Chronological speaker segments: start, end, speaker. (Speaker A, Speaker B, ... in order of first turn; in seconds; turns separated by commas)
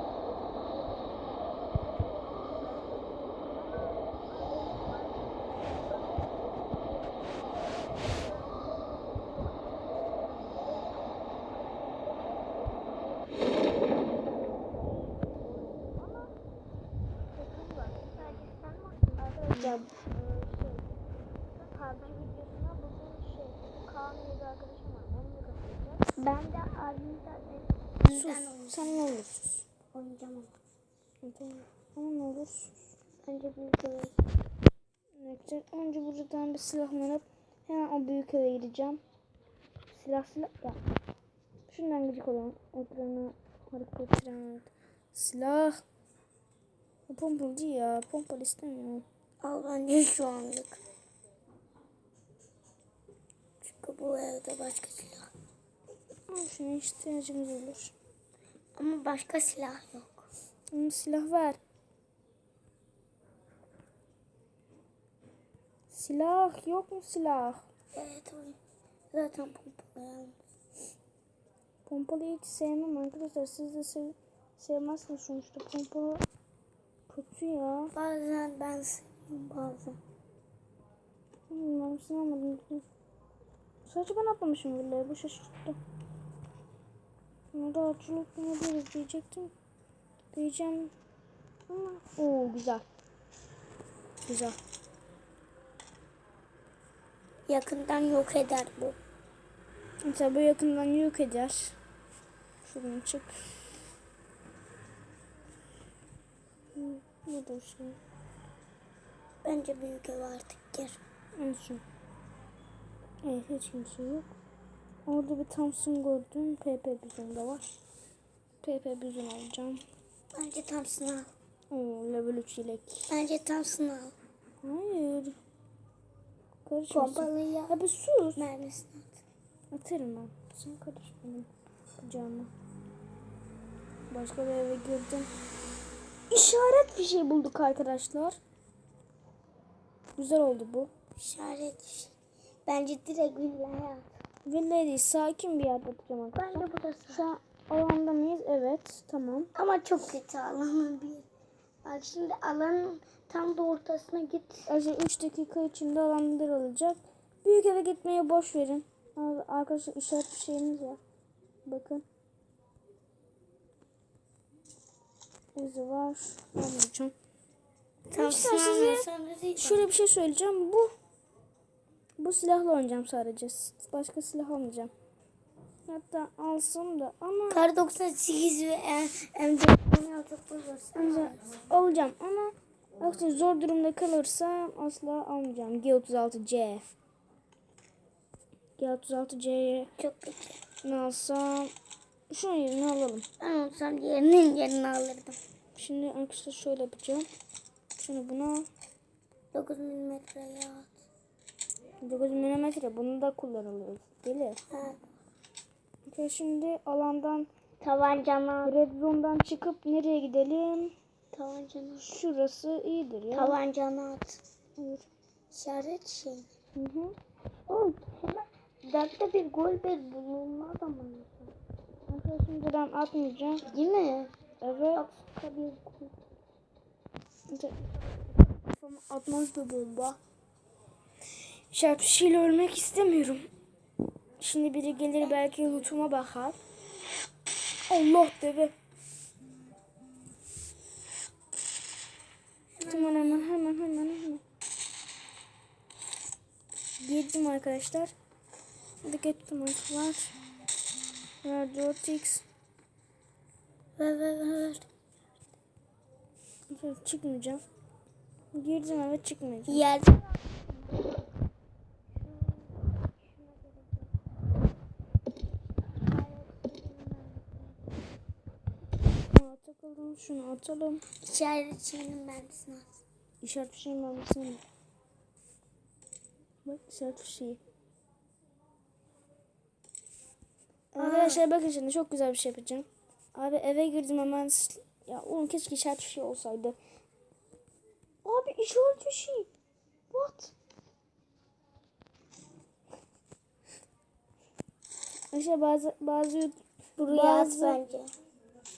Speaker A: 3.8-5.1, Speaker A: 5.6-6.0, Speaker A: 10.4-10.7, Speaker A: 15.2-16.3, Speaker A: 17.3-18.5, Speaker B: 18.2-19.9, Speaker A: 19.1-20.9, Speaker A: 21.7-26.1, Speaker B: 26.1-29.0, Speaker A: 28.1-29.6, Speaker B: 29.9-30.5, Speaker A: 31.2-32.8, Speaker B: 33.2-34.1, Speaker A: 35.2-39.0, Speaker A: 39.9-40.8, Speaker A: 41.7-45.8, Speaker A: 47.1-49.0, Speaker B: 49.4-50.8, Speaker B: 53.6-55.3, Speaker A: 56.3-57.9, Speaker B: 58.8-60.3, Speaker A: 60.7-61.6, Speaker A: 65.9-67.7, Speaker B: 67.9-68.6, Speaker B: 69.1-70.4, Speaker A: 71.8-76.2, Speaker A: 77.1-77.9, Speaker B: 77.9-80.0, Speaker A: 81.5-82.8, Speaker A: 83.8-85.8, Speaker A: 87.5-89.5, Speaker A: 90.3-90.9, Speaker A: 91.7-92.8, Speaker A: 94.2-94.6, Speaker B: 97.5-99.0, Speaker A: 100.0-101.8, Speaker A: 102.6-103.6, Speaker A: 106.7-108.0, Speaker B: 109.4-111.0, Speaker A: 111.3-111.8, Speaker A: 113.2-114.3, Speaker A: 115.0-117.7, Speaker A: 118.6-119.8, Speaker B: 120.3-121.3, Speaker A: 121.7-123.1, Speaker B: 123.1-124.1, Speaker A: 124.6-125.3, Speaker A: 126.6-128.4, Speaker B: 126.9-127.7, Speaker B: 128.3-129.2, Speaker A: 129.7-132.5, Speaker A: 134.1-135.3, Speaker A: 136.3-138.4, Speaker A: 140.2-140.9, Speaker B: 141.2-142.1, Speaker B: 142.7-144.1, Speaker A: 144.4-149.5, Speaker B: 146.3-147.2, Speaker B: 149.5-151.2, Speaker B: 151.8-154.7, Speaker A: 154.7-161.0, Speaker A: 161.7-162.0, Speaker A: 165.6-167.1, Speaker B: 168.1-169.8, Speaker A: 168.1-169.1, Speaker A: 169.6-170.9, Speaker A: 172.2-174.9, Speaker A: 175.9-177.7, Speaker B: 177.5-181.4, Speaker A: 181.0-186.8, Speaker A: 188.8-189.9, Speaker B: 190.0-190.6, Speaker A: 190.8-191.7, Speaker A: 192.3-193.2, Speaker B: 193.4-195.4, Speaker A: 195.7-197.3, Speaker A: 198.0-198.7, Speaker B: 199.5-201.0, Speaker A: 202.0-204.6, Speaker B: 204.7-205.0, Speaker A: 206.1-207.5, Speaker B: 207.8-208.7, Speaker A: 208.6-210.9, Speaker B: 211.3-212.1, Speaker A: 212.0-213.6, Speaker B: 213.3-214.4, Speaker A: 214.8-215.1, Speaker B: 215.5-216.5, Speaker A: 216.7-217.1, Speaker B: 217.7-221.5, Speaker A: 222.1-223.6, Speaker B: 223.7-224.3, Speaker A: 224.6-225.0, Speaker B: 224.9-226.2, Speaker A: 227.5-227.9, Speaker A: 228.5-230.2, Speaker A: 231.7-233.5, Speaker A: 234.4-236.6, Speaker A: 237.9-238.7, Speaker B: 242.8-243.4, Speaker A: 242.8-244.4, Speaker A: 247.0-248.1, Speaker A: 249.0-250.3, Speaker A: 251.4-252.4, Speaker B: 254.0-254.9, Speaker A: 256.7-257.6, Speaker A: 258.5-259.9, Speaker B: 259.7-261.2, Speaker B: 262.2-264.1, Speaker B: 266.0-267.8, Speaker A: 269.3-271.0, Speaker B: 271.2-273.0, Speaker A: 273.4-274.6, Speaker A: 276.6-277.6, Speaker A: 280.9-286.8, Speaker B: 281.0-281.4, Speaker A: 288.2-289.5, Speaker A: 290.1-290.5, Speaker A: 295.3-297.8, Speaker B: 297.0-298.1